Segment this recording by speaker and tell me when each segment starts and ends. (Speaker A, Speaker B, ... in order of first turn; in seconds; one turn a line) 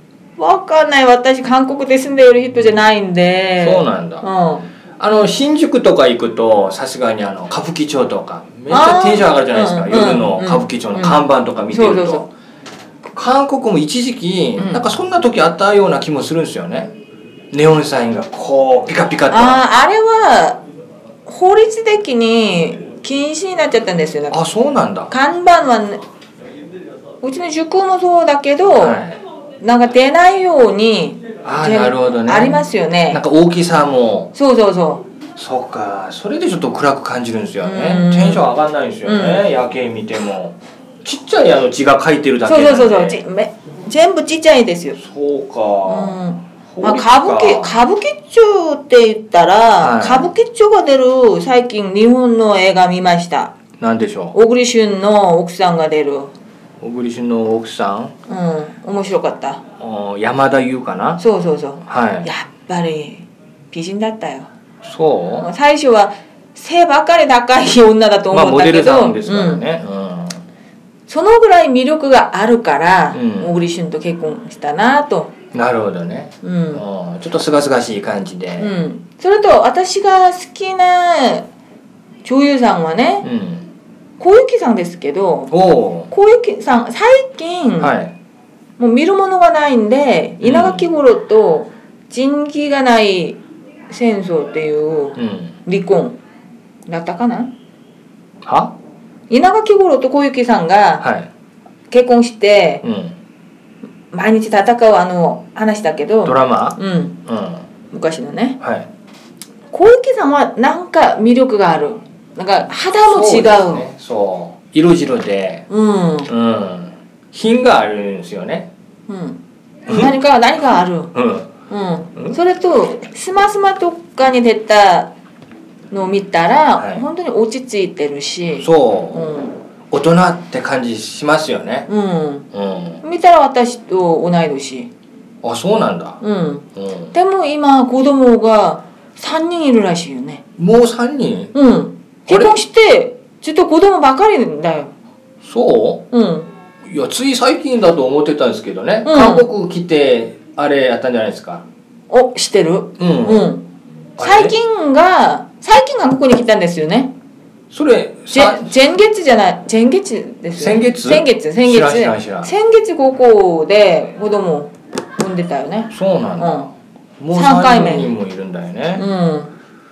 Speaker A: 0.4-4.7
Speaker B: 3.6-4.3
Speaker B: 5.0-12.3
Speaker A: 8.7-12.2
Speaker B: 13.1-16.9
Speaker A: 14.6-14.9
Speaker B: 17.5-19.6
Speaker A: 19.3-20.6
Speaker A: 21.2-24.4
Speaker B: 24.3-25.1
Speaker A: 25.1-26.0
Speaker A: 27.2-29.0
Speaker B: 28.7-29.2
Speaker A: 29.6-33.2
Speaker B: 31.4-34.3
Speaker A: 34.3-35.0
Speaker B: 35.4-43.2
Speaker A: 37.6-38.5
Speaker A: 39.0-39.5
Speaker A: 42.4-45.0
Speaker B: 45.0-46.1
Speaker A: 45.9-53.5
Speaker B: 46.7-47.8
Speaker B: 49.8-50.3
Speaker B: 53.8-54.4
Speaker A: 54.3-56.3
Speaker B: 56.8-58.1
Speaker A: 58.3-59.6
Speaker B: 59.8-61.2
Speaker A: 61.2-64.5
Speaker B: 61.9-62.3
Speaker B: 64.8-65.5
Speaker A: 65.4-69.6
Speaker B: 68.3-70.4
Speaker A: 71.1-75.3
Speaker B: 73.1-73.5
Speaker B: 75.5-78.8
Speaker A: 76.4-76.8
Speaker A: 78.6-81.5
Speaker A: 82.2-83.3
Speaker B: 83.2-83.7
Speaker A: 84.2-85.5
Speaker B: 85.5-86.1
Speaker A: 86.1-88.0
Speaker B: 87.8-88.1
Speaker A: 88.8-96.2
Speaker B: 90.4-90.8
Speaker B: 95.2-95.6
Speaker A: 96.8-97.5
Speaker B: 98.4-98.8
Speaker A: 99.3-101.0
Speaker B: 101.0-101.3
Speaker A: 101.9-102.8
Speaker B: 102.8-103.2
Speaker A: 104.1-107.2
Speaker B: 106.2-107.6
Speaker A: 107.9-108.6
Speaker B: 108.6-108.9
Speaker A: 109.7-113.8
Speaker B: 113.0-115.7
Speaker A: 115.7-116.3
Speaker B: 116.3-118.7
Speaker A: 119.1-121.1
Speaker B: 121.1-121.5
Speaker A: 121.7-125.1
Speaker A: 125.9-129.6
Speaker B: 126.8-127.0
Speaker B: 128.6-129.3
Speaker B: 129.9-131.9
Speaker A: 131.9-132.5
Speaker B: 132.5-133.0
Speaker A: 133.0-134.9
Speaker B: 135.4-136.2
Speaker A: 136.2-140.4
Speaker B: 136.8-137.1
Speaker B: 140.6-141.5
Speaker A: 141.5-144.9
Speaker B: 142.3-142.6
Speaker B: 145.4-146.1
Speaker A: 146.1-146.5
Speaker B: 146.8-151.7
Speaker A: 149.0-149.5
Speaker A: 152.1-157.1
Speaker B: 153.0-153.5
Speaker B: 154.2-154.6
Speaker B: 157.7-158.8
Speaker A: 158.3-166.7
Speaker B: 160.6-162.5
Speaker B: 165.9-169.1
Speaker A: 167.3-168.2
Speaker A: 169.0-169.5